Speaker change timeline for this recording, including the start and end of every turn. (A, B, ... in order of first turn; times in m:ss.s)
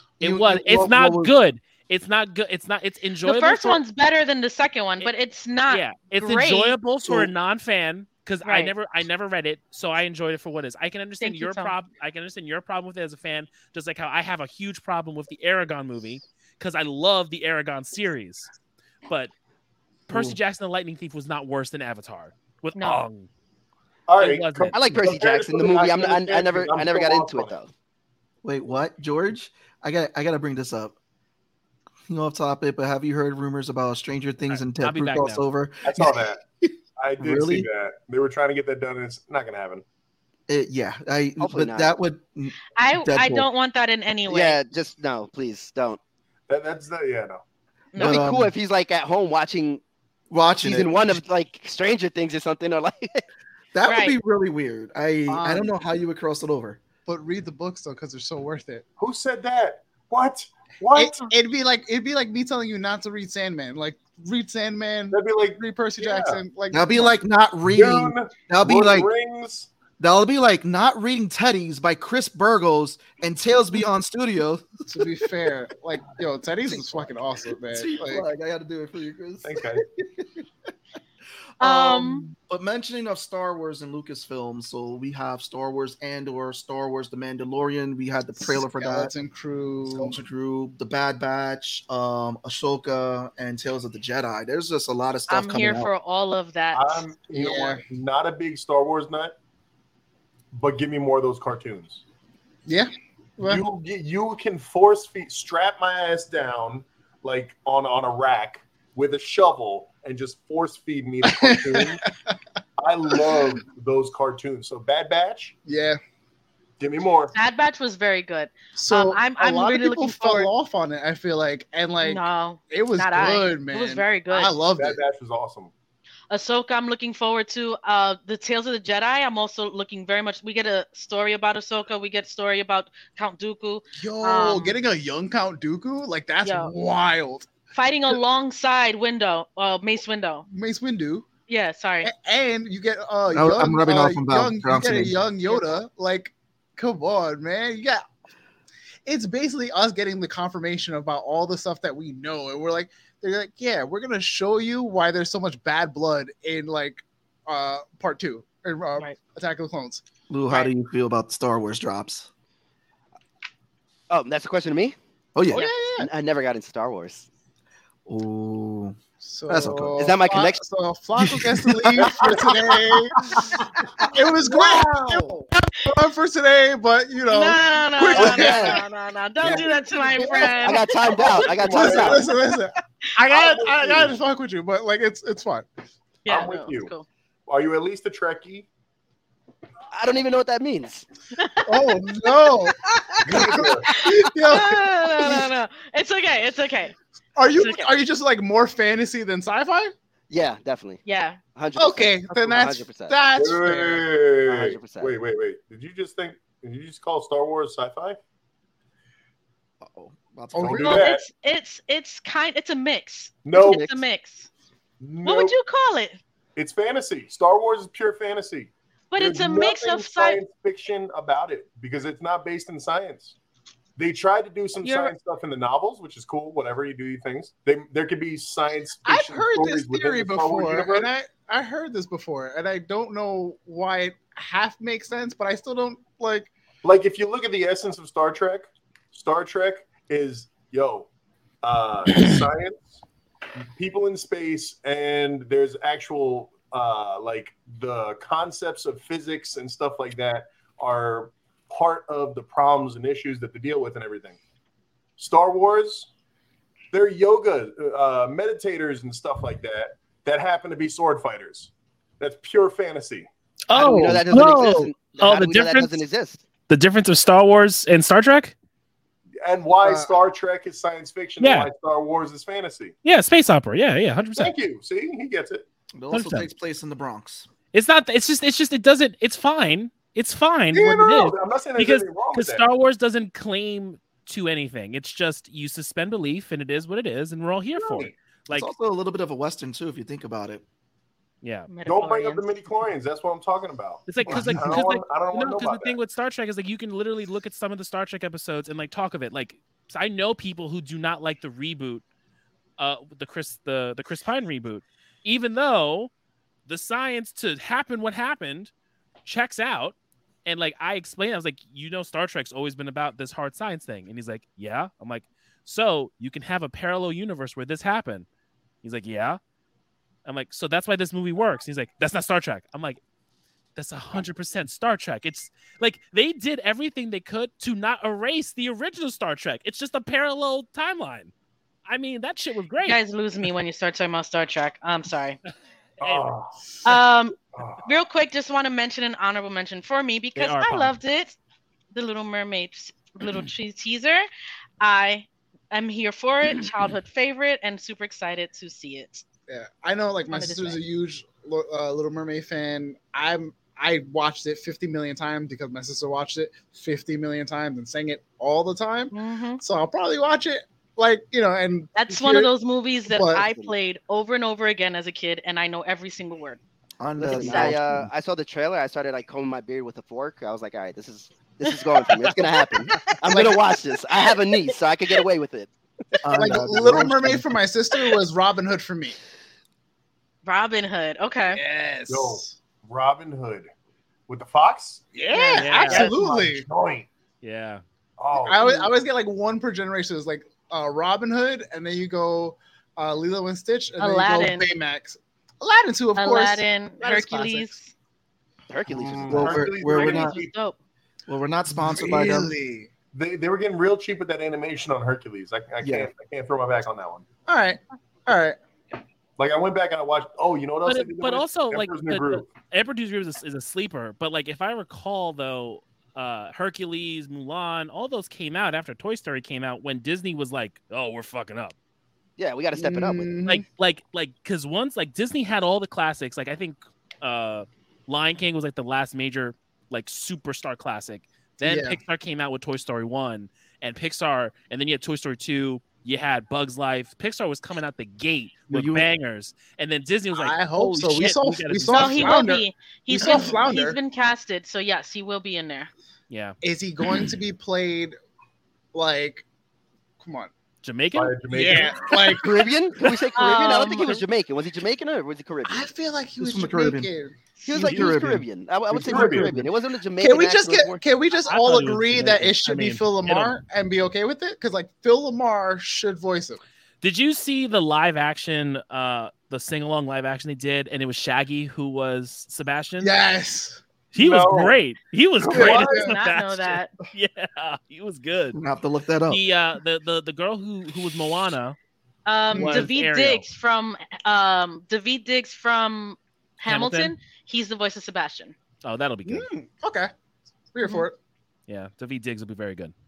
0:00.2-0:01.3 A
0:00.2-0:03.8 B
0:03.2-0:06.8 C
0:05.7-0:18.5 B
0:08.4-0:08.7 C
0:11.2-0:11.7 C
0:19.1-0:19.3 B
0:20.1-0:23.3 B
0:20.1-0:20.3 D
0:22.8-0:23.0 C
0:24.1-0:27.5 D
0:24.2-0:24.8 B
0:24.7-0:27.7 E
0:28.4-0:30.9 A
0:32.1-0:37.7 A
0:34.5-0:35.4 B
0:35.8-0:36.4 D
0:37.0-0:39.8 D
0:40.5-0:43.5 A
0:41.4-0:42.0 E
0:42.7-0:44.6 C
0:44.3-0:46.0 E
0:46.5-0:47.4 D
0:47.9-0:48.2 C
0:48.0-0:49.8 E
0:48.0-0:48.5 A
0:50.3-0:51.2 A
0:50.6-0:53.2 E
0:53.7-0:56.8 A
0:53.8-0:54.2 C
0:55.3-0:55.7 F
0:57.1-0:58.8 F
0:59.0-1:01.2 D
1:00.9-1:07.2 F
1:05.1-1:06.4 D
1:06.7-1:09.1 A
1:07.7-1:09.7 D
1:10.0-1:15.1 A
1:14.9-1:18.2 F
1:16.7-1:20.3 A
1:19.4-1:19.8 D
1:21.6-1:22.2 C
1:21.6-1:29.1 A
1:28.4-1:30.2 F
1:29.9-1:35.9 A
1:35.3-1:37.1 C
1:36.7-1:39.3 D
1:37.3-1:37.8 F
1:40.5-1:42.0 D
1:42.6-1:43.6 F
1:43.4-1:52.0 D
1:51.2-1:52.1 F
1:52.8-1:55.6 D
1:53.1-1:53.5 F
1:55.6-1:56.0 F
1:56.8-1:57.3 D
1:57.3-2:00.5 C
1:58.8-2:05.0 F
2:02.0-2:04.5 C
2:04.8-2:05.7 D
2:06.3-2:14.8 C
2:13.9-2:17.5 F
2:16.4-2:16.7 C
2:17.7-2:20.4 C
2:20.5-2:21.3 F
2:21.5-2:22.1 C
2:22.0-2:28.0 F
2:23.3-2:25.2 A
2:29.0-2:40.7 F
2:40.3-2:42.3 A
2:44.1-2:45.0 E
2:45.3-2:45.6 A
2:45.5-2:46.1 F
2:45.9-2:47.3 E
2:48.1-2:50.0 A
2:49.2-2:58.8 F
2:50.0-2:50.6 E
2:51.2-2:52.1 A
2:52.0-2:52.7 D
2:57.3-3:00.9 C
2:58.2-2:58.6 D
2:58.3-2:58.8 E
2:59.4-3:02.3 D
2:59.4-3:05.7 F
3:00.6-3:02.2 E
3:03.3-3:04.2 D
3:06.2-3:07.0 C
3:06.2-3:06.9 D
3:07.5-3:08.7 D
3:09.9-3:11.0 E
3:11.4-3:11.9 C
3:11.6-3:15.5 F
3:13.2-3:13.9 D
3:13.3-3:16.9 C
3:17.4-3:19.9 F
3:17.6-3:17.9 C
3:20.3-3:21.0 E
3:21.0-3:21.4 C
3:21.5-3:23.2 E
3:21.8-3:24.1 F
3:23.3-3:28.2 D
3:24.4-3:25.1 E
3:29.8-3:31.0 A
3:30.5-3:31.0 F
3:30.6-3:31.2 D
3:30.8-3:34.5 C
3:33.4-3:33.8 D
3:33.5-3:34.0 E
3:35.0-3:35.6 D
3:35.2-3:36.2 C
3:36.6-3:43.3 D
3:39.1-3:40.4 C
3:44.0-3:51.1 D
3:44.8-3:45.1 C
3:49.0-3:56.5 F
3:56.8-4:01.1 D
4:01.6-4:03.0 D
4:03.7-4:14.4 D
4:15.2-4:16.1 D
4:16.9-4:23.3 D
4:23.7-4:26.0 B
4:23.7-4:26.4 E
4:26.7-4:28.5 B
4:29.4-4:32.9 D
4:29.8-4:30.2 F
4:31.4-4:31.7 B
4:33.0-4:34.5 B
4:34.4-4:35.6 D
4:36.0-4:37.5 A
4:36.1-4:36.5 B
4:37.7-4:48.7 B
4:40.7-4:42.6 D
4:47.8-4:48.1 D
4:48.5-4:50.6 A
4:51.4-4:51.7 B
4:51.7-4:52.5 C
4:51.8-4:56.0 D
4:54.1-5:02.0 B
4:54.3-4:54.8 A
5:02.8-5:06.1 B
5:06.6-5:08.7 B
5:09.2-5:09.9 B
5:10.4-5:18.2 B
5:18.8-5:19.4 B
5:20.2-5:23.0 B
5:23.8-5:31.3 B
5:31.8-5:33.0 B
5:32.8-5:35.4 C
5:36.0-5:37.0 D
5:36.0-5:36.3 B
5:36.8-5:41.4 C
5:37.5-5:37.8 D
5:40.4-5:40.9 B
5:41.9-5:44.2 C
5:44.8-5:49.2 C
5:49.5-6:02.5 F
5:50.3-5:50.8 C
5:59.1-5:59.6 C
6:01.9-6:06.6 C
6:03.1-6:03.4 F
6:07.0-6:08.1 A
6:07.2-6:15.7 E
6:07.4-6:07.7 F
6:13.0-6:13.6 F
6:16.2-6:17.6 A
6:16.4-6:19.2 F
6:20.4-6:21.6 C
6:21.5-6:22.5 F
6:22.1-6:23.7 D
6:24.3-6:25.1 D
6:25.1-6:26.6 F
6:25.3-6:26.1 C
6:25.6-6:26.1 B
6:25.7-6:27.1 D
6:27.4-6:27.8 B
6:28.2-6:28.8 D
6:28.3-6:37.8 F
6:34.0-6:34.7 C
6:36.2-6:37.9 C
6:38.7-6:39.6 E
6:38.9-6:40.5 D
6:39.3-6:40.4 A
6:39.8-6:40.8 C
6:41.3-6:42.5 A
6:41.7-6:42.9 F
6:43.1-6:47.2 D
6:45.8-6:46.1 A
6:47.5-6:48.6 F
6:49.4-6:52.5 D
6:50.8-7:01.7 B
7:02.4-7:03.4 E
7:02.7-7:03.6 F
7:03.4-7:22.4 B
7:11.6-7:12.0 F
7:18.7-7:19.1 A
7:20.3-7:24.0 F
7:21.9-7:25.9 C
7:26.3-7:26.6 B
7:26.6-7:28.1 F
7:28.9-7:29.4 F
7:30.2-7:30.5 F
7:30.8-7:31.8 B
7:31.1-7:32.2 D
7:31.5-7:32.7 F
7:32.3-7:35.9 E
7:33.3-7:34.2 C
7:35.6-7:37.4 F
7:36.4-7:37.1 A
7:37.6-7:41.0 E
7:37.7-7:38.4 A
7:37.8-7:38.1 B
7:38.9-7:46.6 F
7:39.0-7:39.5 D
7:41.4-7:43.5 B
7:47.0-7:53.1 B
7:53.0-7:53.8 F
7:54.1-7:58.6 B
7:54.1-7:54.8 D
7:55.4-7:56.1 D
7:55.5-7:56.1 F
7:55.8-7:56.9 C
7:58.5-7:59.4 A
7:59.3-8:01.8 B
8:02.2-8:08.5 C
8:02.5-8:02.9 F
8:02.5-8:03.4 B
8:06.6-8:07.1 B
8:08.8-8:09.5 B
8:09.2-8:10.1 F
8:10.7-8:11.2 F
8:11.7-8:12.9 B